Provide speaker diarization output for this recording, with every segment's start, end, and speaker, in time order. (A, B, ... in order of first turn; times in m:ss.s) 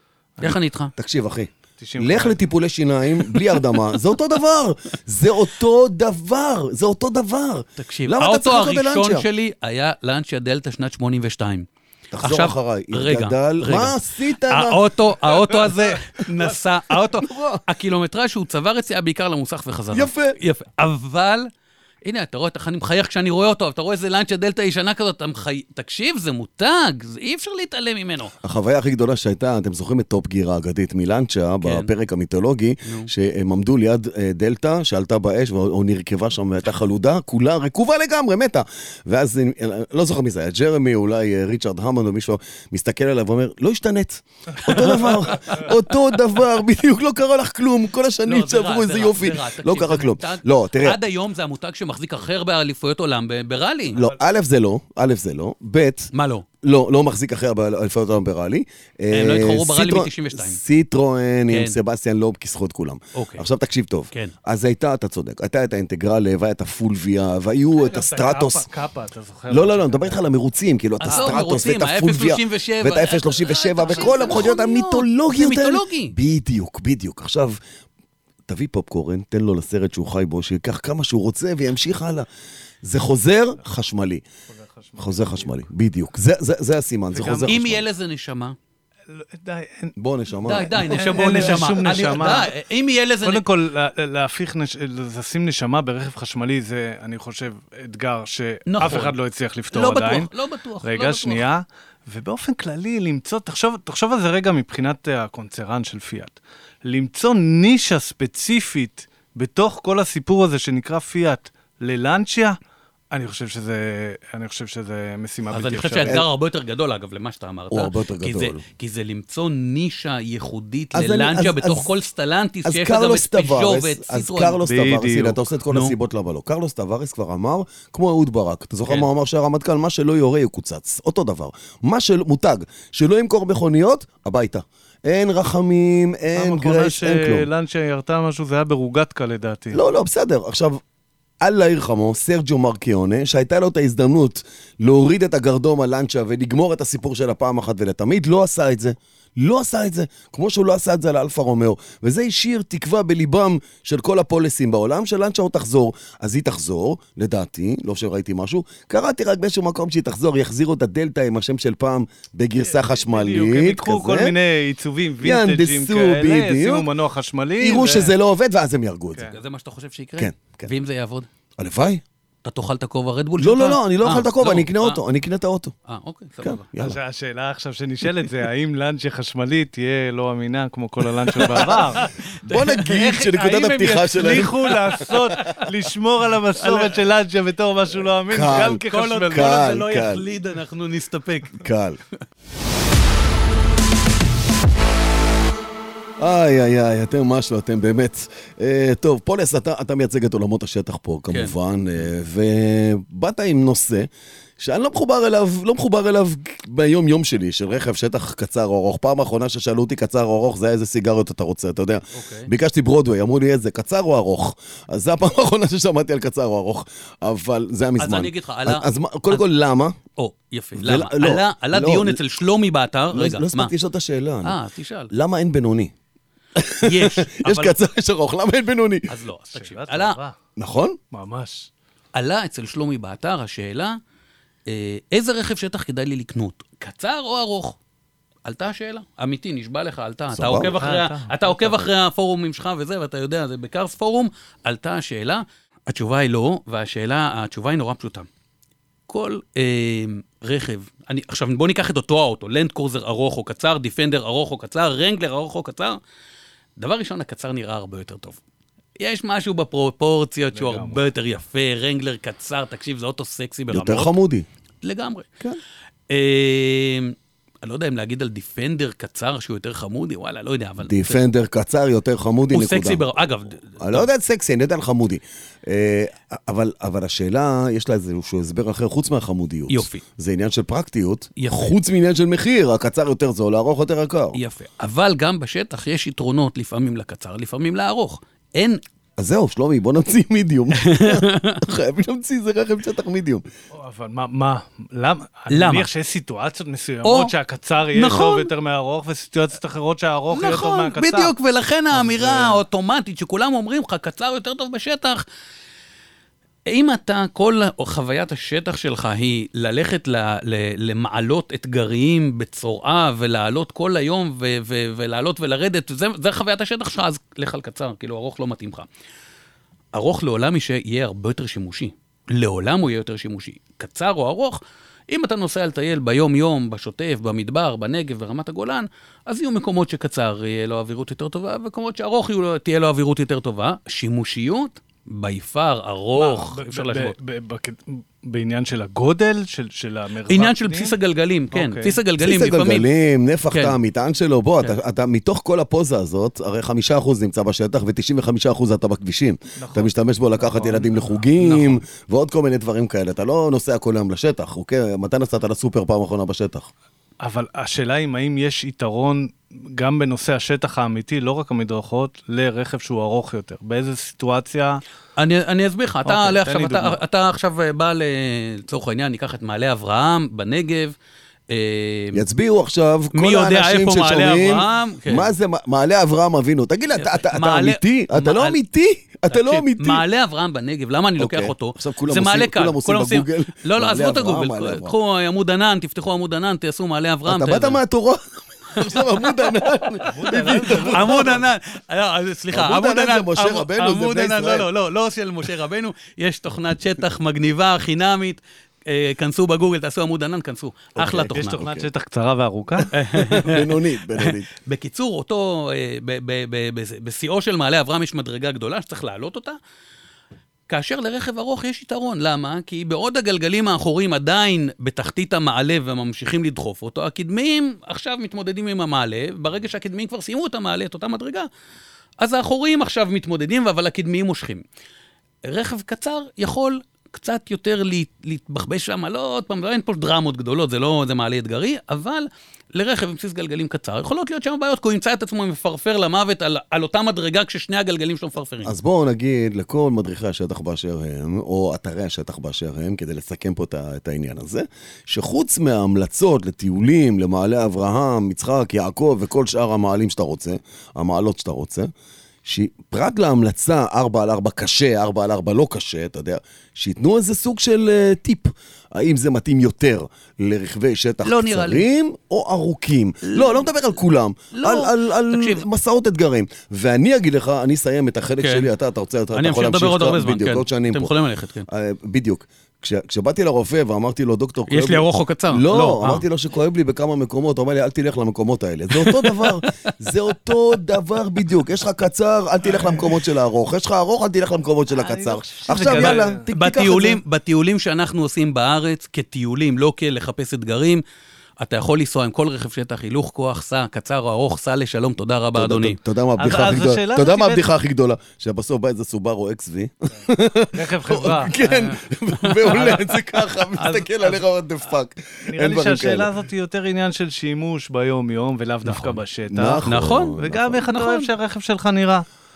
0:00.4-0:00.9 A
0:01.0-0:09.2 B
0:01.8-0:02.4 C
0:03.2-0:03.9 A
0:07.8-0:11.6 A
0:12.1-0:15.7 B
0:12.2-0:21.5 A
0:16.9-0:17.6 B
0:19.9-0:20.4 B
0:22.0-0:28.3 A
0:28.4-0:51.0 B
0:31.6-0:31.9 A
0:32.8-0:33.1 A
0:44.7-0:45.7 A
0:48.3-0:54.0 A
0:53.9-0:56.1 B
0:56.1-0:56.4 A
0:56.6-1:08.7 B
0:59.1-1:00.6 A
1:01.5-1:01.8 A
1:03.1-1:03.4 A
1:07.8-1:10.2 C
1:09.5-1:17.6 B
1:11.0-1:16.1 A
1:11.0-1:11.5 C
1:13.8-1:14.6 C
1:18.5-1:22.3 B
1:22.8-1:24.2 B
1:24.5-1:25.6 C
1:25.0-1:27.8 B
1:27.1-1:27.6 C
1:27.5-1:28.6 A
1:29.1-1:29.9 C
1:30.0-1:31.7 B
1:30.4-1:33.4 A
1:30.8-1:32.5 C
1:33.2-1:40.3 C
1:38.7-1:39.1 A
1:39.7-1:41.4 A
1:40.8-1:52.6 C
1:53.1-1:56.2 C
1:55.5-2:04.6 A
1:57.7-1:58.6 B
2:00.9-2:01.9 B
2:02.6-2:17.5 B
2:04.6-2:05.5 C
2:05.7-2:05.9 A
2:16.3-2:19.8 C
2:19.7-2:20.8 B
2:21.4-2:44.3 B
2:42.6-2:48.1 C
2:45.2-2:46.9 B
2:47.6-2:49.3 B
2:49.1-2:49.4 C
2:49.3-2:51.3 A
2:50.2-2:50.7 B
2:51.6-2:52.0 B
2:52.4-2:55.0 A
2:53.4-2:55.7 B
2:55.9-2:56.7 A
2:56.4-2:57.0 B
2:56.8-3:02.1 C
3:01.3-3:03.0 A
3:01.4-3:05.5 B
3:02.9-3:09.6 C
3:04.2-3:05.7 A
3:06.5-3:07.0 A
3:08.3-3:10.2 B
3:08.8-3:11.7 A
3:11.6-3:12.0 B
3:16.2-3:40.0 B
3:32.1-3:32.5 A
3:38.0-3:39.4 A
3:40.2-3:43.7 A
3:40.7-3:42.2 B
3:43.1-3:44.6 B
3:44.4-3:45.1 A
3:45.1-3:45.9 B
3:46.6-3:49.1 B
3:46.8-3:47.8 A
3:49.1-3:50.2 A
3:49.5-3:50.4 C
3:50.6-3:51.0 B
3:51.1-3:51.7 C
3:52.1-3:54.0 A
3:54.7-3:57.8 A
3:58.4-4:08.3 A
4:00.3-4:00.7 B
4:00.6-4:01.9 C
4:09.1-4:16.0 A
4:16.8-4:18.4 A
4:19.0-4:24.1 A
4:20.5-4:21.0 C
4:23.7-4:24.4 B
4:24.8-4:25.3 A
4:26.1-4:31.2 A
4:30.8-4:33.1 B
4:32.5-4:34.1 A
4:33.8-4:44.4 B
4:39.7-4:40.0 A
4:41.4-4:41.8 A
4:44.3-4:48.8 A
4:49.2-4:53.4 B
4:50.8-4:51.6 A
4:53.7-5:01.3 C
4:55.5-4:55.9 A
4:57.0-4:57.3 A
4:57.9-4:58.5 A
5:00.3-5:05.2 A
5:01.9-5:02.6 C
5:06.6-5:18.9 A
5:19.9-5:37.1 A
5:36.1-5:40.9 C
5:40.2-5:42.9 A
5:41.5-5:42.0 C
5:42.2-5:56.7 B
5:43.5-5:43.8 A
5:49.6-5:51.3 C
5:51.4-5:51.8 A
5:57.2-6:04.8 C
6:05.2-6:10.9 A
6:06.0-6:07.0 C
6:11.5-6:12.2 A
6:12.1-6:20.0 B
6:13.1-6:15.3 A
6:17.0-6:18.6 A
6:19.3-6:27.8 A
6:21.2-6:24.9 B
6:27.2-6:31.4 B
6:28.8-6:29.6 A
6:30.1-6:31.4 C
6:30.3-6:41.6 A
6:32.5-6:34.7 B
6:41.0-6:41.9 B
6:41.3-6:43.5 C
6:42.9-6:49.6 A
6:43.3-6:44.5 B
6:50.7-7:01.5 A
7:02.2-7:04.6 A
7:05.4-7:18.7 A
7:18.6-7:31.9 B
7:32.4-7:51.1 B
7:41.2-7:41.9 A
7:43.2-7:43.6 A
7:44.5-7:45.6 A
7:48.4-7:48.7 A
7:49.3-7:51.7 A
7:51.7-8:07.2 B
7:54.7-7:56.2 A
7:58.9-7:59.9 A
8:04.9-8:06.4 C
8:05.9-8:11.0 A
8:11.6-8:16.0 A
8:15.5-8:26.3 B
8:16.4-8:17.6 C
8:20.7-8:21.6 C
8:21.6-8:23.1 A
8:23.8-8:24.4 C
8:25.4-8:29.8 C
8:28.8-8:29.2 A
8:29.5-8:30.8 B
8:29.8-8:31.3 A
8:30.4-8:32.2 C